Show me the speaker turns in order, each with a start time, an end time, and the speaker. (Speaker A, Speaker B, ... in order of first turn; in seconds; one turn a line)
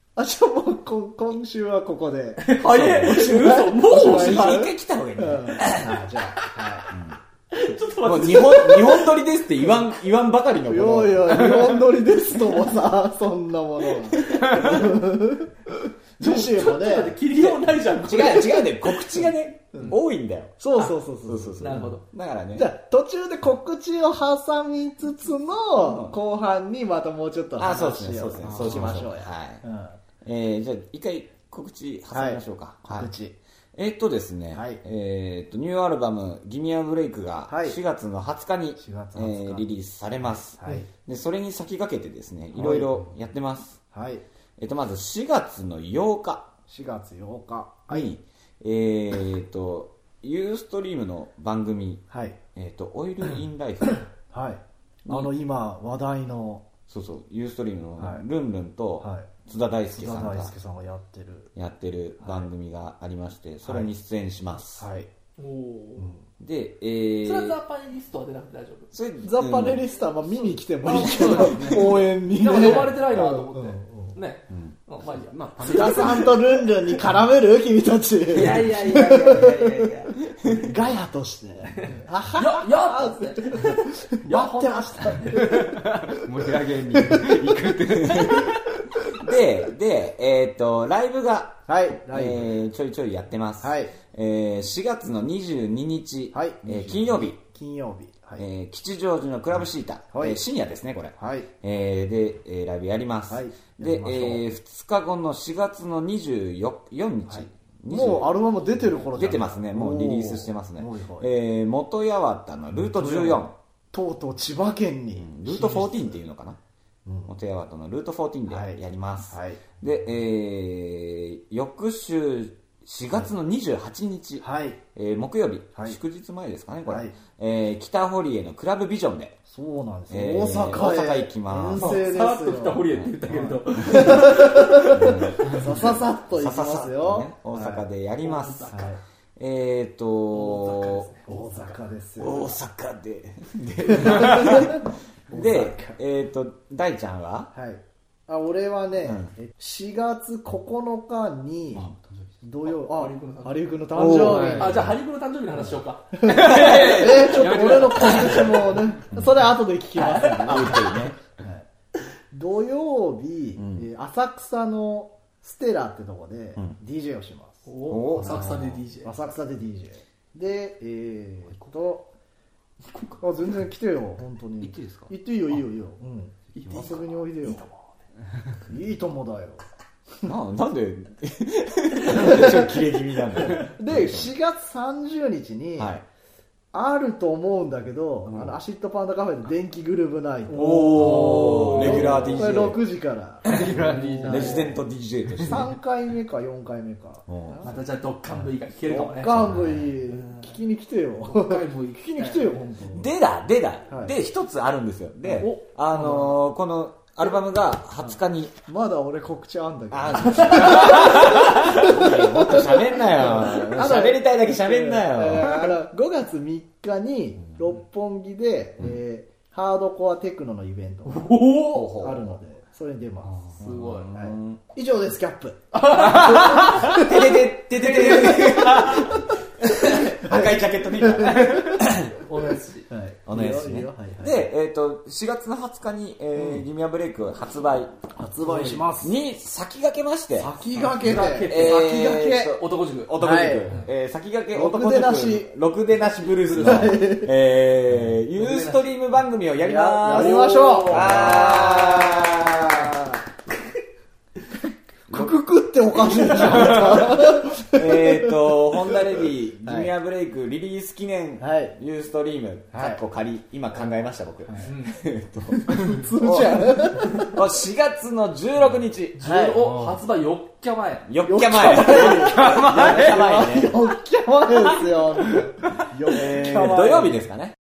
Speaker A: 0.1-2.5
Speaker B: 2.4-4.6
Speaker C: 2.6-6.0
Speaker A: 3.0-6.9
Speaker C: 6.9-7.2
Speaker B: 7.5-9.2
Speaker C: 8.0-11.7
Speaker A: 10.6-17.3
Speaker B: 14.3-14.7
Speaker B: 16.2-18.7
Speaker C: 18.0-20.6
Speaker A: 20.6-22.0
Speaker C: 21.2-22.7
Speaker B: 21.6-22.0
Speaker A: 22.5-30.0
Speaker C: 25.7-26.2
Speaker C: 27.6-29.6
Speaker D: 28.4-29.0
Speaker C: 30.2-33.1
Speaker A: 32.1-33.4
Speaker C: 33.8-43.8
Speaker A: 34.5-34.8
Speaker A: 37.5-37.8
Speaker A: 38.8-39.7
Speaker A: 40.6-40.9
Speaker A: 42.5-43.0
Speaker A: 43.9-44.2
Speaker C: 44.6-46.5
Speaker A: 46.7-48.1
Speaker C: 47.9-54.0
Speaker A: 52.1-52.4
Speaker A: 54.3-56.7
Speaker C: 56.9-60.5
Speaker A: 58.0-58.2
Speaker A: 59.0-59.3
Speaker A: 59.9-61.5
Speaker C: 61.5-64.9
Speaker A: 62.2-62.5
Speaker A: 64.8-65.1
Speaker B: 65.4-66.1
Speaker A: 66.0-66.2
Speaker C: 66.4-67.6
Speaker B: 67.2-68.9
Speaker C: 68.9-69.8
Speaker A: 69.2-74.2
Speaker B: 70.4-76.4
Speaker D: 70.9-72.9
Speaker D: 75.0-76.5
Speaker A: 75.7-79.8
Speaker B: 78.3-80.1
Speaker A: 80.4-85.7
Speaker B: 81.8-85.8
Speaker D: 85.3-88.8
Speaker C: 89.2-97.4
Speaker A: 91.7-92.5
Speaker A: 93.6-93.9
Speaker A: 96.3-98.5
Speaker C: 98.4-113.5
Speaker A: 100.1-100.4
Speaker A: 101.2-101.5
Speaker A: 103.3-104.4
Speaker A: 107.3-111.3
Speaker A: 112.8-116.2
Speaker C: 115.1-116.6
Speaker A: 117.0-117.3
Speaker C: 117.2-129.4
Speaker A: 118.5-118.8
Speaker A: 119.3-119.6
Speaker A: 124.4-124.8
Speaker A: 126.9-127.1
Speaker A: 129.5-137.8
Speaker C: 130.1-132.0
Speaker B: 131.8-135.2
Speaker C: 132.9-138.8
Speaker B: 138.2-138.9
Speaker A: 138.7-139.0
Speaker C: 139.3-141.1
Speaker B: 140.3-141.7
Speaker A: 141.2-142.5
Speaker C: 142.2-147.5
Speaker A: 143.9-146.0
Speaker A: 147.5-154.9
Speaker C: 149.0-149.3
Speaker D: 151.7-152.3
Speaker B: 152.6-158.2
Speaker C: 153.9-154.8
Speaker D: 154.1-154.9
Speaker A: 155.6-161.7
Speaker D: 156.2-159.0
Speaker C: 159.1-159.5
Speaker C: 160.1-161.2
Speaker A: 162.3-167.7
Speaker C: 163.6-163.9
Speaker B: 167.7-169.1
Speaker C: 167.8-168.8
Speaker A: 169.0-172.1
Speaker B: 172.9-173.2
Speaker A: 173.2-177.6
Speaker D: 174.6-175.6
Speaker B: 176.5-177.9
Speaker D: 176.6-177.0
Speaker A: 178.7-179.6
Speaker C: 180.2-184.3
Speaker A: 182.1-182.8
Speaker A: 183.3-185.9
Speaker C: 185.8-186.0
Speaker A: 186.7-194.8
Speaker C: 190.5-192.8
Speaker D: 190.9-192.2
Speaker B: 191.0-192.2
Speaker D: 193.4-194.7
Speaker B: 193.9-194.7
Speaker C: 194.2-195.7
Speaker D: 195.3-195.6
Speaker A: 195.4-197.7
Speaker C: 197.3-197.7
Speaker B: 197.6-199.4
Speaker A: 198.3-203.1
Speaker C: 199.3-199.9
Speaker B: 200.1-200.6
Speaker B: 201.2-202.6
Speaker C: 202.9-208.6
Speaker B: 205.4-206.3
Speaker A: 208.0-221.4
Speaker C: 209.9-215.8
Speaker B: 210.7-211.2
Speaker B: 221.0-221.9
Speaker C: 221.7-222.4
Speaker A: 222.0-227.4
Speaker B: 223.6-224.1
Speaker C: 223.6-224.6
Speaker B: 225.7-227.0
Speaker C: 226.5-232.2
Speaker A: 228.0-228.8
Speaker A: 229.7-231.8
Speaker B: 232.2-232.9
Speaker A: 232.9-234.5
Speaker C: 233.2-237.9
Speaker A: 238.2-239.2
Speaker B: 238.4-238.8
Speaker C: 238.6-240.5
Speaker A: 240.4-242.5
Speaker B: 240.8-243.9
Speaker C: 241.4-252.9
Speaker A: 243.2-243.8
Speaker A: 244.5-245.5
Speaker B: 246.3-247.0
Speaker A: 246.6-247.3
Speaker B: 248.3-248.8
Speaker A: 249.6-253.2
Speaker B: 250.0-251.9
Speaker C: 255.1-255.4
Speaker A: 255.1-258.6
Speaker C: 256.0-269.2
Speaker A: 259.6-259.9
Speaker A: 261.4-261.8
Speaker A: 262.7-263.0
Speaker B: 264.6-265.0
Speaker A: 265.7-267.3
Speaker B: 269.1-272.5
Speaker A: 269.2-269.6
Speaker D: 269.6-270.0
Speaker C: 271.1-273.9
Speaker A: 271.3-277.2
Speaker D: 272.3-273.4
Speaker D: 274.9-275.4
Speaker C: 276.0-277.6